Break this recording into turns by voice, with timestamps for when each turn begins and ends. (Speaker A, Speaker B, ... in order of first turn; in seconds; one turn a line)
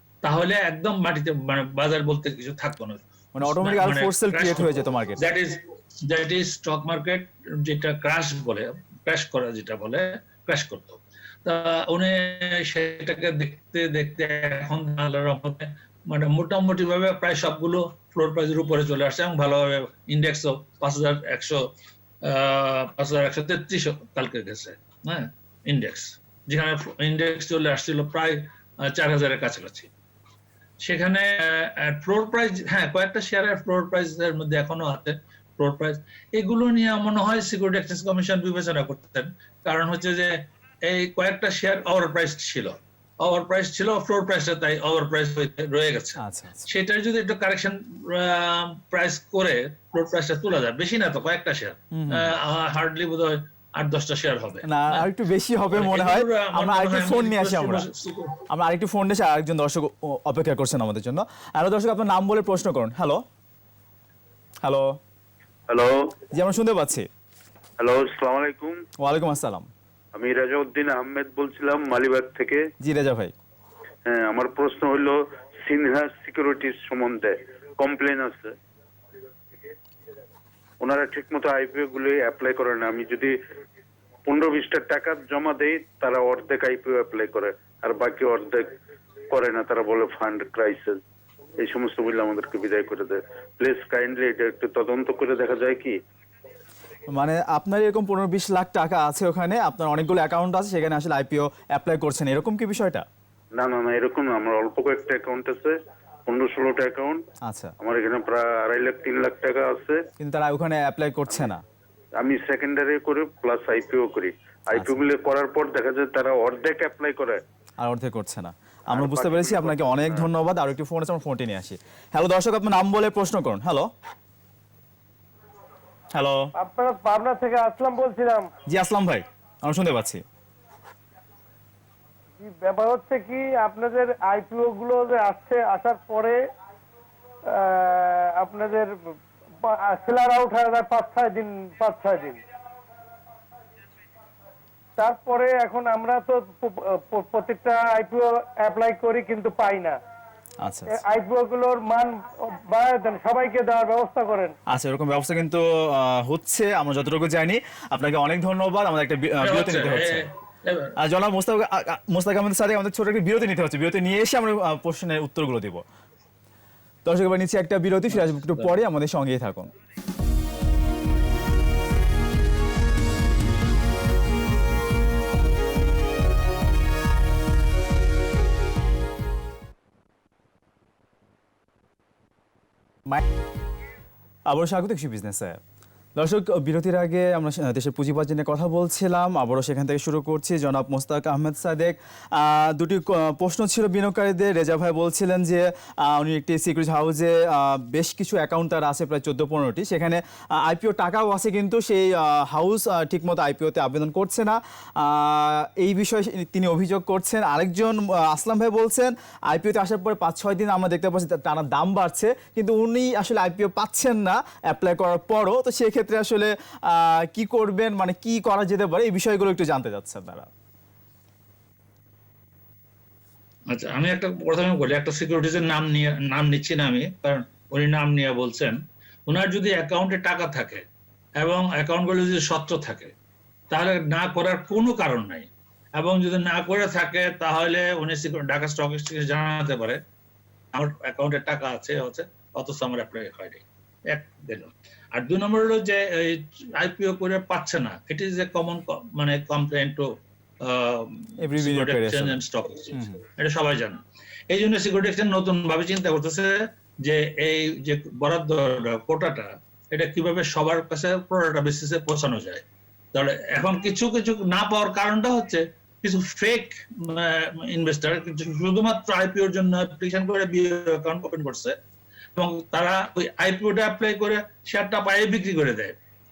Speaker A: 0.2-21.6
Speaker B: 3.3-5.2
Speaker A: 22.3-29.9
Speaker A: 30.8-40.3
Speaker A: 40.9-55.0
Speaker B: 46.2-46.6
Speaker B: 52.0-52.3
Speaker B: 54.6-57.8
Speaker A: 55.7-58.4
Speaker B: 58.5-63.2
Speaker B: 64.6-65.0
Speaker C: 65.7-66.1
Speaker B: 66.3-67.1
Speaker C: 67.8-68.8
Speaker B: 69.0-69.7
Speaker C: 70.1-72.7
Speaker B: 72.8-73.3
Speaker C: 74.0-78.5
Speaker C: 80.8-83.4
Speaker C: 84.2-88.7
Speaker C: 89.3-91.0
Speaker C: 91.6-96.0
Speaker B: 97.1-103.0
Speaker C: 103.5-107.2
Speaker B: 107.4-107.7
Speaker C: 107.8-110.0
Speaker B: 110.2-111.6
Speaker C: 112.2-117.4
Speaker B: 114.7-115.0
Speaker B: 117.8-123.9
Speaker C: 118.9-120.1
Speaker B: 126.1-126.4
Speaker D: 126.5-128.5
Speaker B: 128.7-130.2
Speaker D: 132.4-136.4
Speaker D: 137.5-138.9
Speaker D: 139.6-142.4
Speaker D: 145.0-149.9
Speaker B: 150.6-151.0
Speaker D: 150.9-154.5
Speaker B: 154.7-160.3
Speaker A: 159.4-160.9
Speaker B: 161.0-165.8
Speaker B: 167.1-169.7
Speaker A: 168.1-168.8
Speaker B: 184.5-185.6
Speaker B: 186.2-220.5
Speaker A: 223.7-230.8
Speaker A: 231.4-233.1
Speaker A: 233.7-240.0
Speaker A: 240.7-250.1
Speaker A: 250.6-262.6
Speaker B: 251.4-252.4
Speaker B: 252.9-253.2
Speaker A: 263.1-271.7
Speaker A: 272.4-275.9